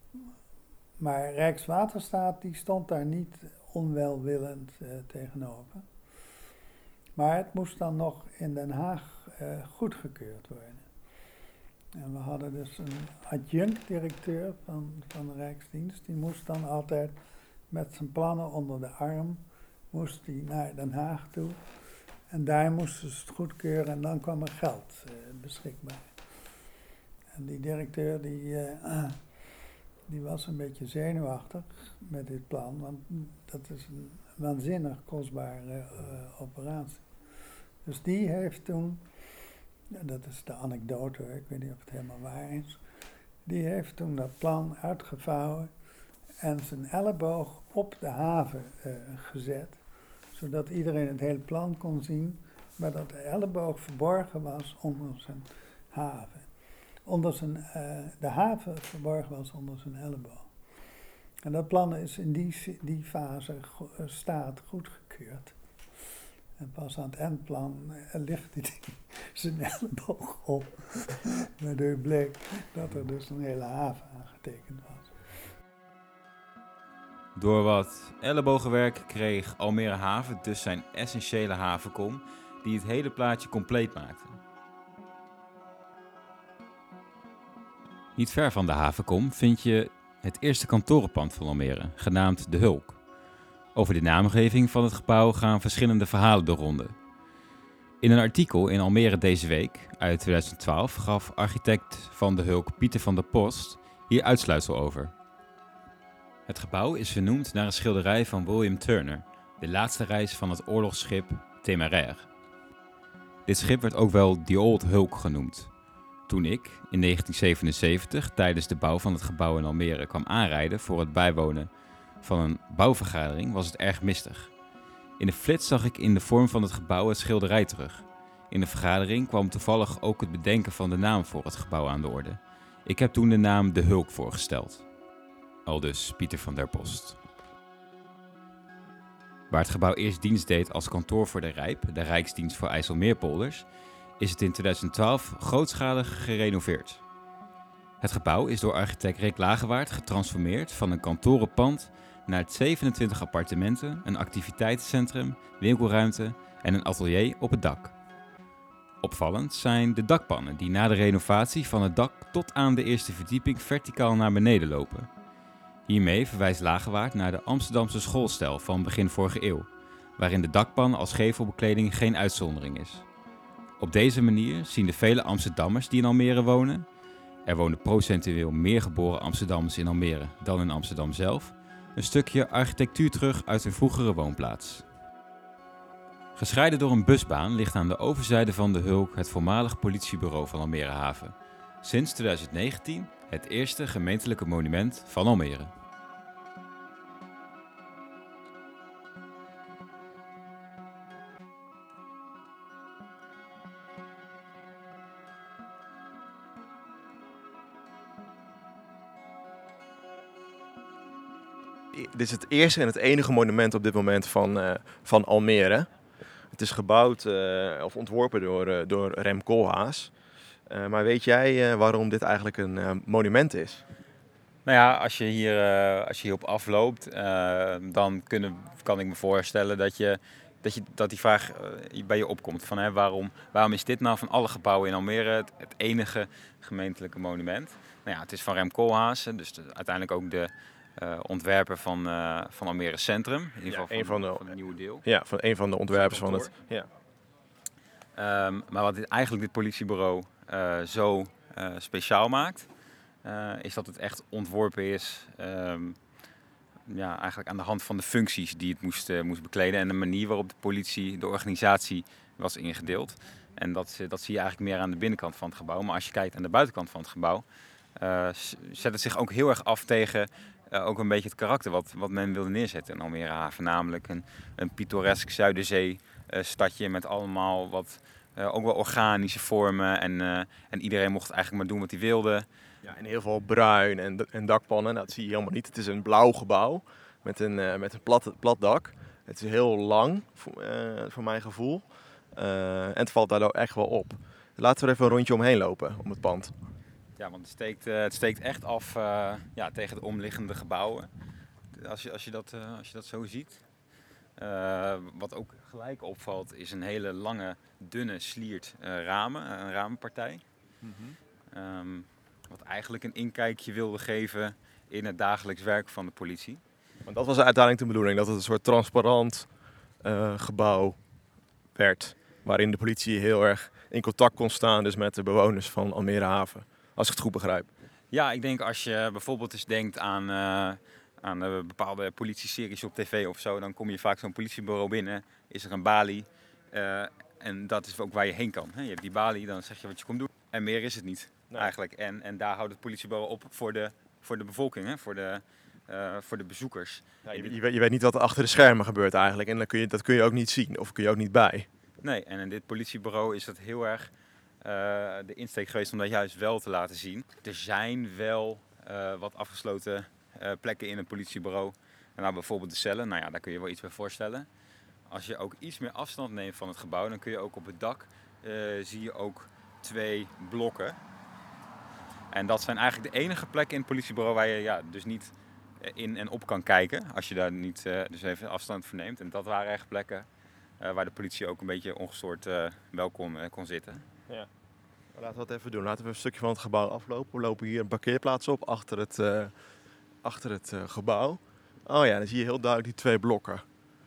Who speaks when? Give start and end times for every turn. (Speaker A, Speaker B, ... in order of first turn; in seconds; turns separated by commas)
Speaker A: 1.0-5.9, Speaker A: 7.2-10.9, Speaker A: 11.9-17.2, Speaker A: 17.7-21.6, Speaker A: 22.3-26.1, Speaker A: 27.3-29.2, Speaker A: 30.1-37.1, Speaker A: 37.8-39.0, Speaker A: 39.9-42.8, Speaker A: 43.4-45.7, Speaker A: 46.4-49.8, Speaker A: 50.3-56.5, Speaker A: 57.0-60.5, Speaker A: 61.4-65.5, Speaker A: 66.6-75.2, Speaker B: 77.3-84.3, Speaker B: 88.2-93.0, Speaker B: 93.7-96.9, Speaker B: 98.0-105.1, Speaker B: 106.5-112.3, Speaker B: 113.5-115.7, Speaker B: 116.3-121.7, Speaker B: 122.2-124.5, Speaker B: 125.2-134.8, Speaker B: 135.7-137.2, Speaker B: 139.5-143.6, Speaker B: 144.2-147.0, Speaker B: 148.0-157.9, Speaker B: 159.0-165.1, Speaker B: 165.9-173.0, Speaker B: 173.8-176.8, Speaker B: 177.4-184.8, Speaker B: 186.3-195.7, Speaker C: 211.9-215.9, Speaker C: 216.5-220.1, Speaker C: 220.7-223.8, Speaker B: 224.7-245.0, Speaker C: 243.7-244.4, Speaker C: 245.0-246.9, Speaker B: 245.9-246.5, Speaker B: 248.2-252.7, Speaker B: 253.2-256.0, Speaker B: 256.9-267.4, Speaker B: 268.0-282.4, Speaker C: 282.8-291.8, Speaker C: 292.4-296.5, Speaker B: 297.2-301.1, Speaker B: 301.7-303.6, Speaker B: 304.4-310.4, Speaker C: 310.8-311.2, Speaker B: 311.5-316.6, Speaker C: 317.1-319.5, Speaker C: 320.0-321.0, Speaker C: 321.7-327.7, Speaker B: 328.1-347.6, Speaker C: 347.2-351.7, Speaker B: 352.0-354.1, Speaker B: 354.6-364.5, Speaker B: 365.1-371.0, Speaker B: 372.3-380.2, Speaker B: 380.8-384.0, Speaker C: 385.1-389.5, Speaker C: 390.2-393.6